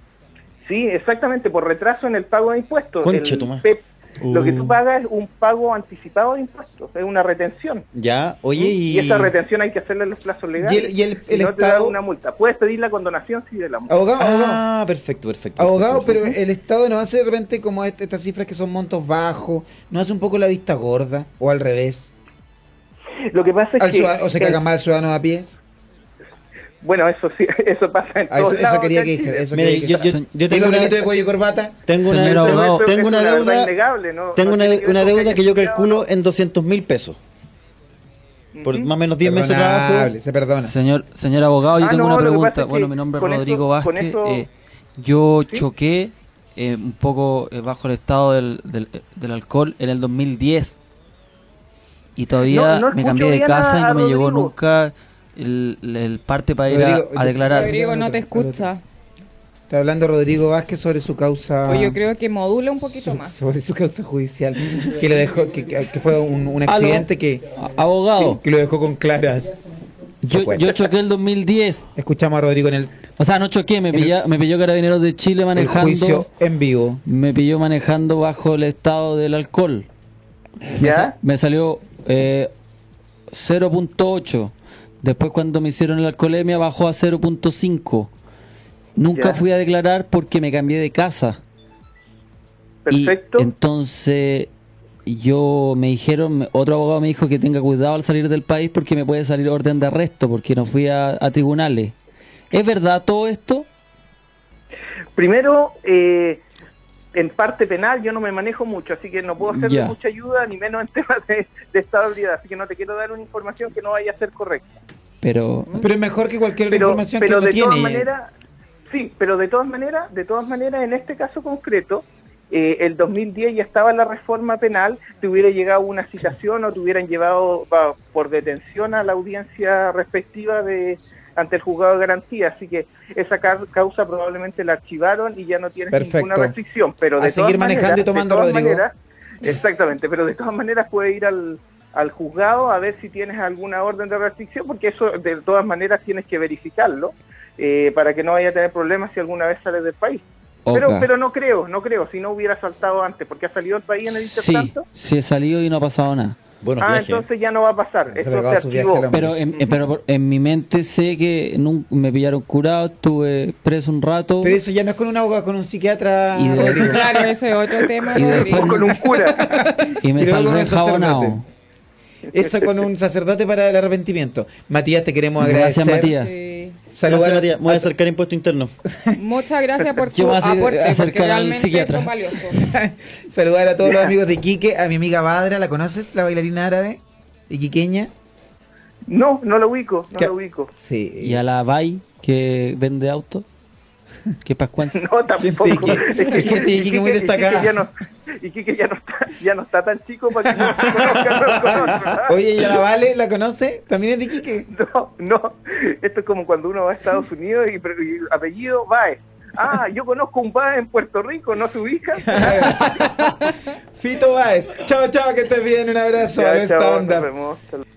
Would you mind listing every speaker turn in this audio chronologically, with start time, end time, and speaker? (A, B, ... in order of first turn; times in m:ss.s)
0:00.7-0:07.9 A
0:03.0-0:03.7 B
0:04.3-0:04.6 B
0:07.9-0:09.3 B
0:08.8-0:13.9 A
0:10.6-0:12.0 C
0:13.9-0:14.6 C
0:14.2-0:16.4 B
0:15.6-0:22.1 C
0:23.3-0:24.6 A
0:23.8-0:25.6 C
0:26.8-0:29.5 A
0:28.3-0:31.8 C
0:29.5-0:31.1 B
0:29.9-0:30.8 D
0:31.9-0:33.7 B
0:32.0-0:32.9 D
0:32.3-0:36.0 A
0:34.4-0:37.2 B
0:38.5-0:38.9 A
0:38.6-0:40.1 B
0:39.2-0:40.7 C
0:40.6-0:50.8 D
0:41.8-0:44.5 A
0:52.2-0:57.8 D
0:52.4-0:54.5 A
0:56.7-0:58.7 C
0:57.5-0:58.8 E
0:59.7-1:02.0 C
1:01.7-1:03.3 E
1:03.0-1:07.5 C
1:06.7-1:08.4 D
1:08.2-1:10.9 C
1:10.2-1:11.9 D
1:12.0-1:12.9 C
1:13.2-1:16.3 D
1:15.6-1:17.0 C
1:17.1-1:19.9 D
1:20.8-1:22.5 D
1:20.8-1:21.1 A
1:23.3-1:28.1 D
1:29.0-1:31.4 D
1:29.1-1:29.4 A
1:32.9-1:33.5 A
1:32.9-1:34.5 D
1:35.1-1:42.0 D
1:42.5-1:43.7 D
1:45.2-1:46.4 A
1:47.1-1:54.8 A
1:49.4-1:50.0 D
1:55.2-1:55.7 D
1:55.8-1:58.1 C
1:56.7-1:58.3 A
1:58.9-2:18.9 A
2:15.9-2:16.6 C
2:17.2-2:18.8 C
2:19.4-2:34.9 A
2:30.7-2:31.1 D
2:34.1-2:36.4 D
2:36.6-2:37.2 B
2:36.8-2:39.7 A
2:38.2-2:39.4 C
2:39.1-2:44.6 D
2:44.4-2:47.3 C
2:46.3-2:47.1 D
2:46.6-2:49.7 E
2:47.8-2:49.6 A
2:48.1-2:49.2 D
2:49.4-2:51.4 C
2:50.0-2:51.4 D
2:52.3-2:56.1 C
2:55.4-2:56.3 D
2:56.1-2:56.8 E
2:56.9-2:57.9 C
2:57.0-2:58.7 B
2:59.2-3:02.6 E
3:00.1-3:02.5 D
3:02.6-3:08.1 C
3:03.8-3:04.1 A
3:09.1-3:10.7 A
3:10.2-3:11.4 C
3:11.2-3:13.5 D
3:14.4-3:15.0 D
3:14.9-3:17.9 A
3:15.4-3:17.8 C
3:18.4-3:22.4 A
3:20.6-3:21.1 C
3:21.6-3:24.7 C
3:24.7-3:32.8 A
3:32.2-3:33.4 C
3:34.0-3:37.3 C
3:36.3-3:37.8 A